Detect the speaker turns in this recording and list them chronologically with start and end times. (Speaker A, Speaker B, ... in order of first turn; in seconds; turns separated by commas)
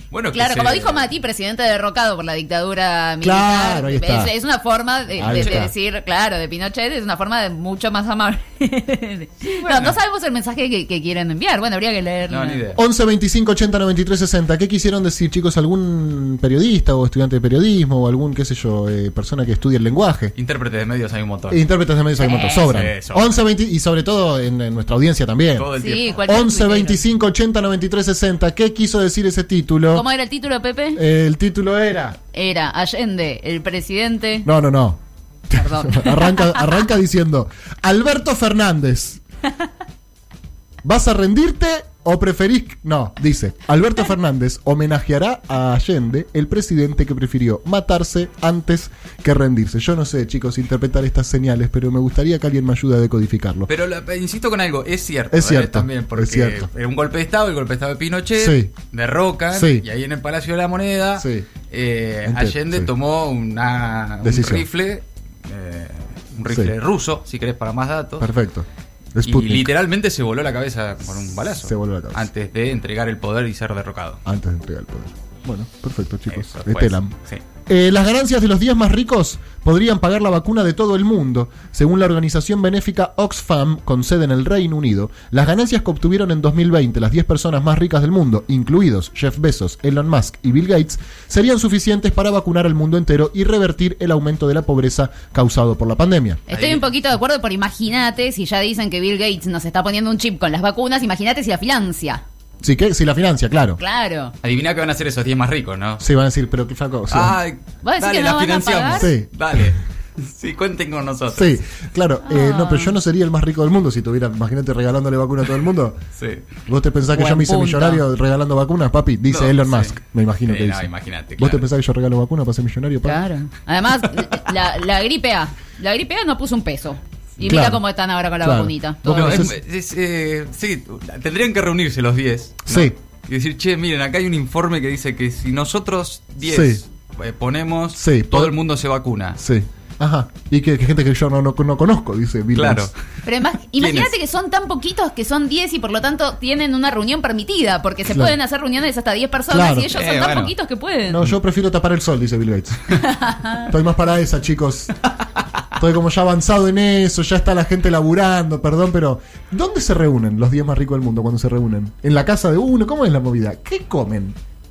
Speaker A: 0.1-1.1, Speaker B: 0.3-12.6, Speaker C: 3.2-4.3, Speaker C: 5.2-5.7, Speaker A: 5.2-5.7, Speaker A: 9.5-10.0, Speaker A: 12.3-12.8, Speaker C: 12.7-20.3, Speaker A: 20.4-21.6, Speaker C: 21.5-25.7, Speaker B: 22.2-22.7, Speaker A: 22.5-23.3, Speaker A: 25.6-26.2, Speaker B: 25.8-27.0, Speaker C: 26.2-30.1, Speaker B: 29.9-31.0, Speaker C: 30.9-32.2, Speaker B: 32.3-34.5, Speaker C: 34.5-39.2, Speaker B: 35.5-36.8, Speaker C: 40.8-53.7, Speaker A: 53.7-68.3, Speaker C: 55.3-56.7, Speaker C: 58.4-58.7, Speaker C: 59.5-59.9, Speaker C: 61.2-61.5, Speaker C: 62.2-62.9, Speaker C: 64.2-64.7, Speaker C: 68.2-69.7, Speaker A: 69.2-74.2, Speaker C: 71.6-72.3, Speaker C: 74.2-77.1, Speaker A: 76.3-77.4, Speaker C: 77.7-96.4, Speaker B: 96.5-102.2, Speaker A: 96.5-96.8, Speaker C: 102.6-103.8, Speaker B: 103.8-104.3, Speaker A: 104.4-106.0, Speaker C: 106.0-107.4, Speaker A: 107.1-111.6, Speaker B: 107.8-109.1, Speaker C: 109.0-109.7, Speaker C: 111.3-116.0, Speaker B: 112.2-113.0, Speaker A: 116.2-116.5, Speaker C: 116.7-123.2, Speaker B: 117.1-118.0, Speaker A: 119.3-121.6, Speaker B: 123.0-129.5, Speaker C: 127.5-127.8, Speaker C: 128.4-129.6, Speaker A: 129.1-139.4, Speaker C: 132.7-132.9, Speaker C: 136.4-136.8, Speaker C: 137.9-138.6, Speaker C: 139.4-142.9, Speaker A: 142.6-142.9, Speaker B: 143.2-151.2, Speaker A: 143.8-144.1, Speaker C: 148.1-148.4, Speaker C: 149.5-149.9, Speaker A: 149.9-150.5, Speaker C: 151.1-153.0, Speaker B: 153.0-153.7, Speaker C: 153.5-154.9, Speaker C: 155.8-164.4